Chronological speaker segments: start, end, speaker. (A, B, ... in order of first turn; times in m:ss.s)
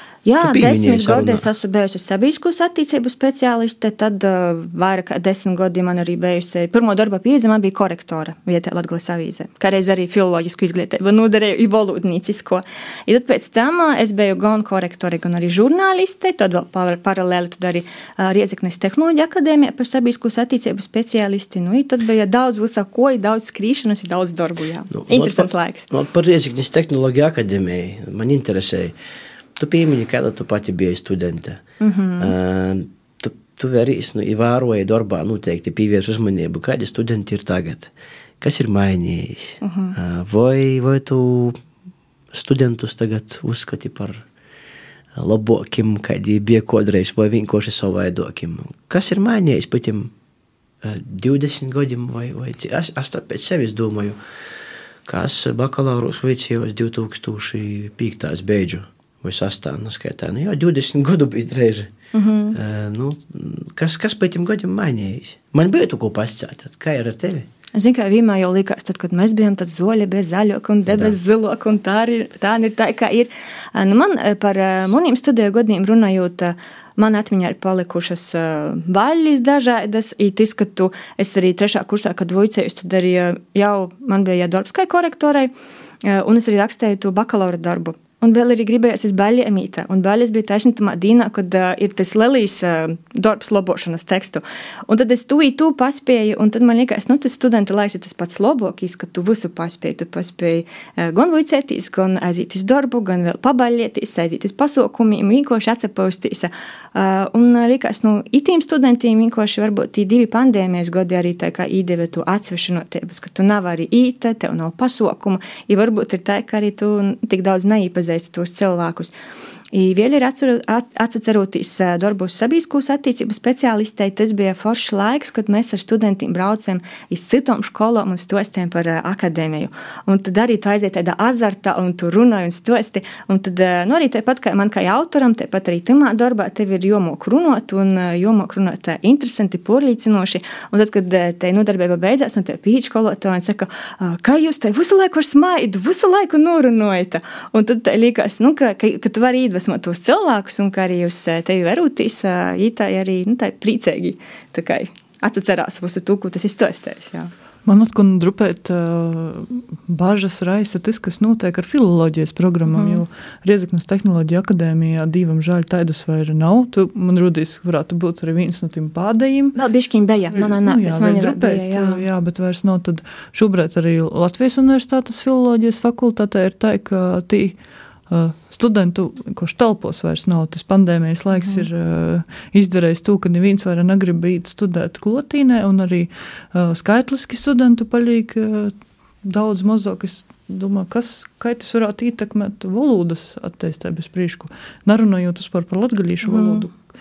0:00.2-0:25.9 A
0:00.4-0:01.4 B
0:24.9-0:28.9 B
0:29.6-0:31.6 B
0:31.8-0:32.3 A
0:32.2-0:41.6 B
0:39.6-0:39.9 A
0:42.3-0:44.2 B
0:45.2-0:50.1 B
0:50.8-0:54.2 B
0:55.1-1:01.9 B
1:02.1-1:02.6 A
1:02.5-1:07.5 B
1:07.7-1:25.5 A
1:10.9-1:11.1 B
1:26.0-1:59.1 A
1:59.7-2:37.3 A
2:37.6-2:49.5 C
2:42.7-2:43.0 A
2:49.5-2:52.0 A
2:50.3-2:57.6 C
2:58.1-3:16.7 C
3:01.4-3:01.6 A
3:16.2-3:16.7 A